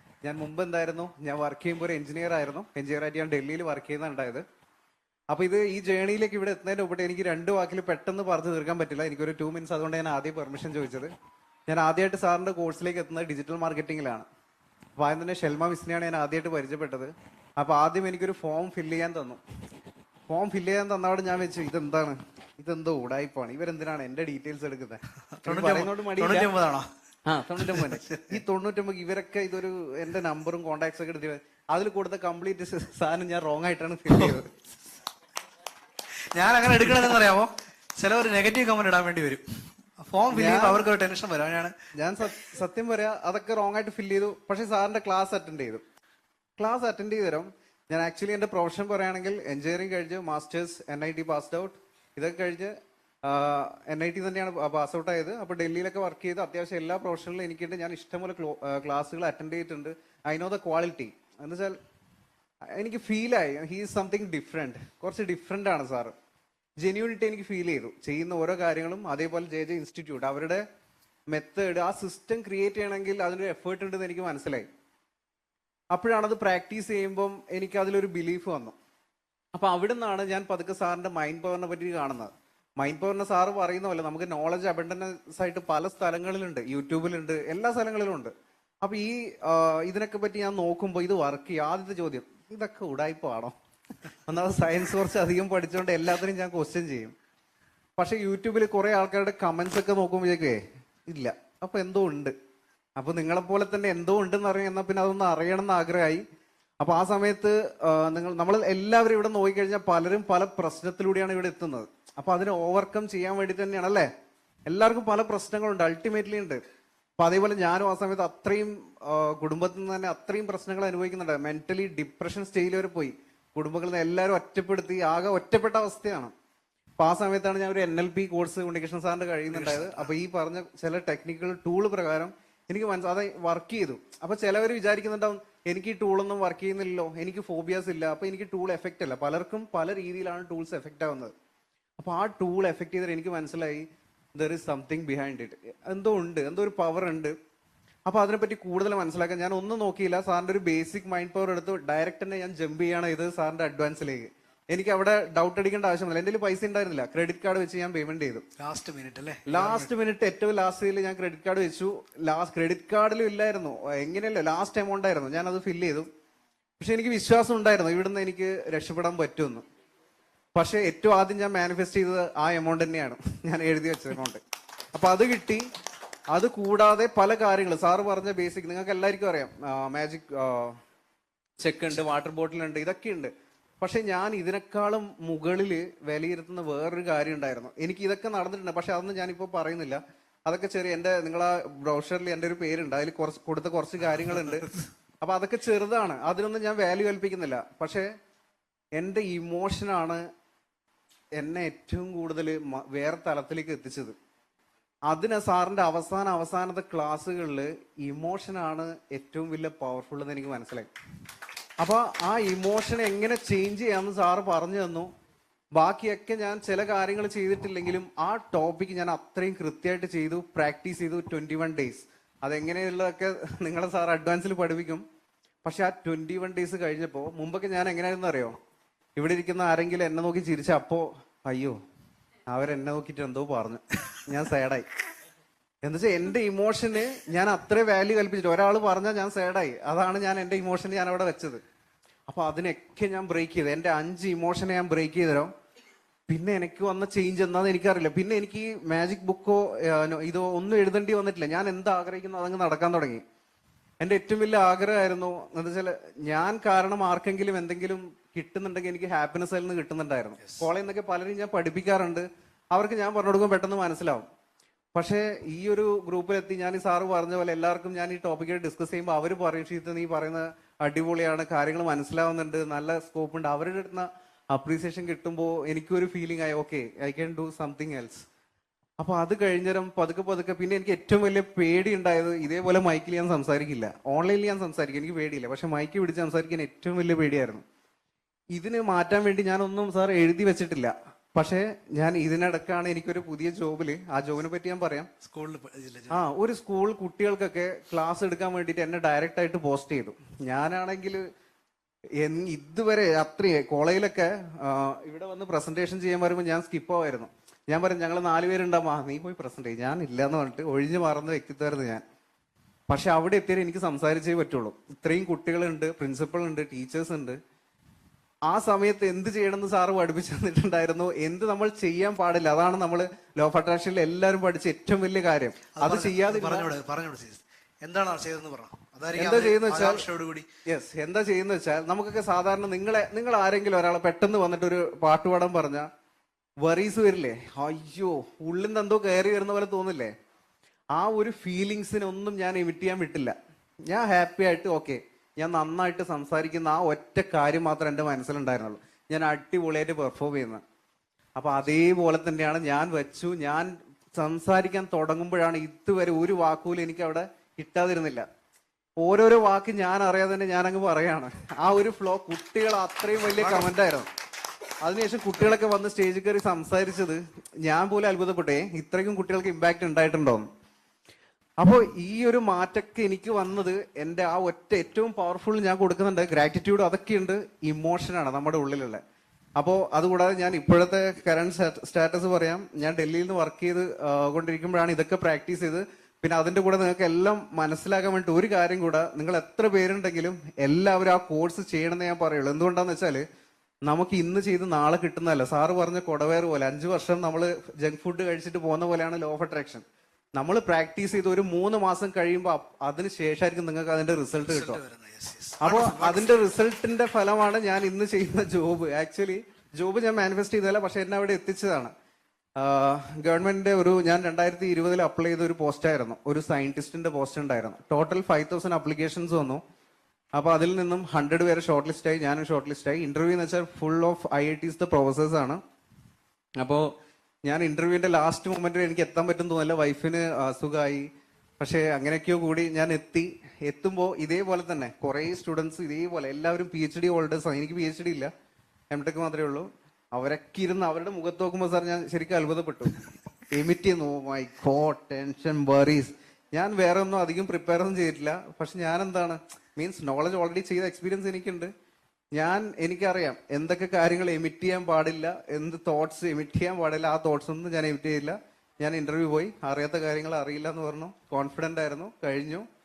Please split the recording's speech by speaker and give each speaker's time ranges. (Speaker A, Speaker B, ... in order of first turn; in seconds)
Speaker A: 0.2-4.4, 5.3-11.1, 11.7-14.2, 15.0-19.4, 20.3-26.5, 27.3-34.6, 40.3-40.9, 41.9-45.8, 46.6-61.8, 62.7-66.1, 66.8-70.6, 71.3-74.7, 75.9-78.7, 79.5-88.3, 88.8-93.5, 94.2-97.1, 98.0-102.3, 103.0-106.2, 106.8-114.1, 114.7-116.6, 117.2-126.3, 127.0-141.3, 142.0-147.3, 148.1-158.4, 159.5-166.1, 166.8-169.6, 170.5-174.4, 174.9-175.7, 176.3-180.8, 181.6-194.7, 195.2-198.1, 199.0-200.2, 201.4-204.1, 205.1-210.9, 211.8-215.1, 215.7-225.0, 225.6-228.5, 229.2-231.8, 232.5-234.8, 235.8-241.6, 242.3-245.5, 246.3-253.2, 254.0-264.2, 264.9-278.2, 279.0-287.6, 288.5-295.1, 296.1-301.2, 302.2-312.0, 312.9-317.4, 318.5-326.7, 329.1-330.0, 330.6-335.9, 336.6-340.1, 340.9-343.3, 343.9-350.6, 351.4-358.2, 359.0-364.1, 364.8-370.4, 371.6-379.0, 379.6-393.2, 393.9-399.8, 400.4-404.8, 405.6-411.9, 412.6-419.6, 420.4-425.6, 426.6-426.9, 427.4-431.1, 431.6-438.3, 438.9-451.7, 452.4-462.6
Speaker B: 25.4-26.9, 27.6-28.4, 34.1-34.4, 36.3-41.7, 129.5-130.1, 158.6-159.9, 194.2-194.8, 295.2-296.2, 325.7-330.5, 363.3-363.7, 404.5-406.4